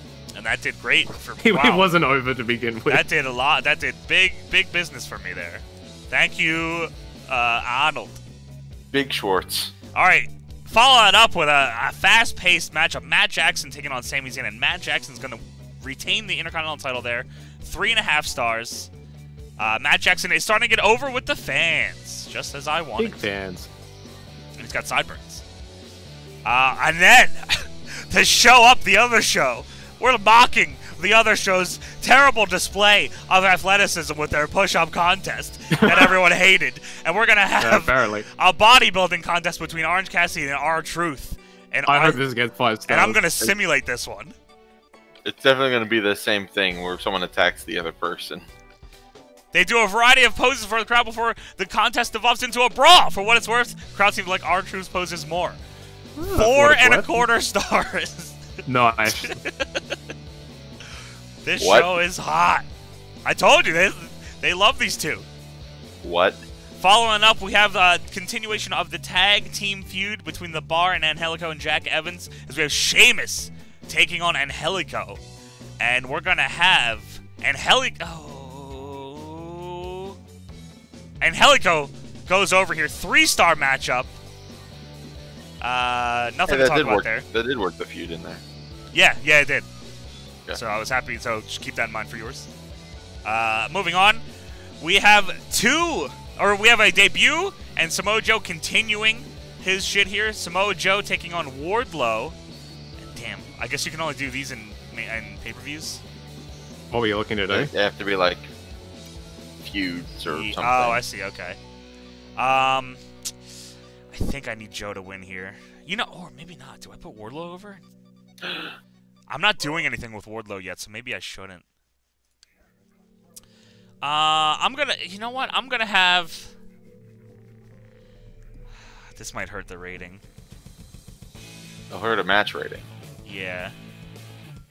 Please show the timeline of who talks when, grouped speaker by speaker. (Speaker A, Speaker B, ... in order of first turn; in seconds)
Speaker A: 0.3-1.9, 2.9-8.2, 9.9-18.9, 19.6-23.3, 24.6-25.4, 26.4-42.2, 42.9-44.4, 49.5-55.6, 56.2-58.4, 59.1-60.0, 61.4-62.7, 63.2-65.3, 66.8-75.2, 75.8-80.2, 81.2-84.2, 85.6-87.3, 88.9-89.7, 90.5-92.5, 93.2-94.2, 94.8-102.4, 103.0-106.0, 110.3-111.6, 112.4-113.0, 114.1-117.8, 119.3-121.7, 124.0-126.5, 129.2-130.2, 133.2-133.8
Speaker B: 1.4-3.1, 23.0-23.7, 35.7-36.1, 37.6-38.3, 41.9-43.3, 56.2-57.3, 58.7-59.4, 106.9-107.7
Speaker C: 8.9-9.7, 45.2-48.5, 61.6-61.9, 66.0-66.4, 86.5-88.4, 107.5-108.5, 109.6-111.0, 118.4-118.7, 131.9-132.9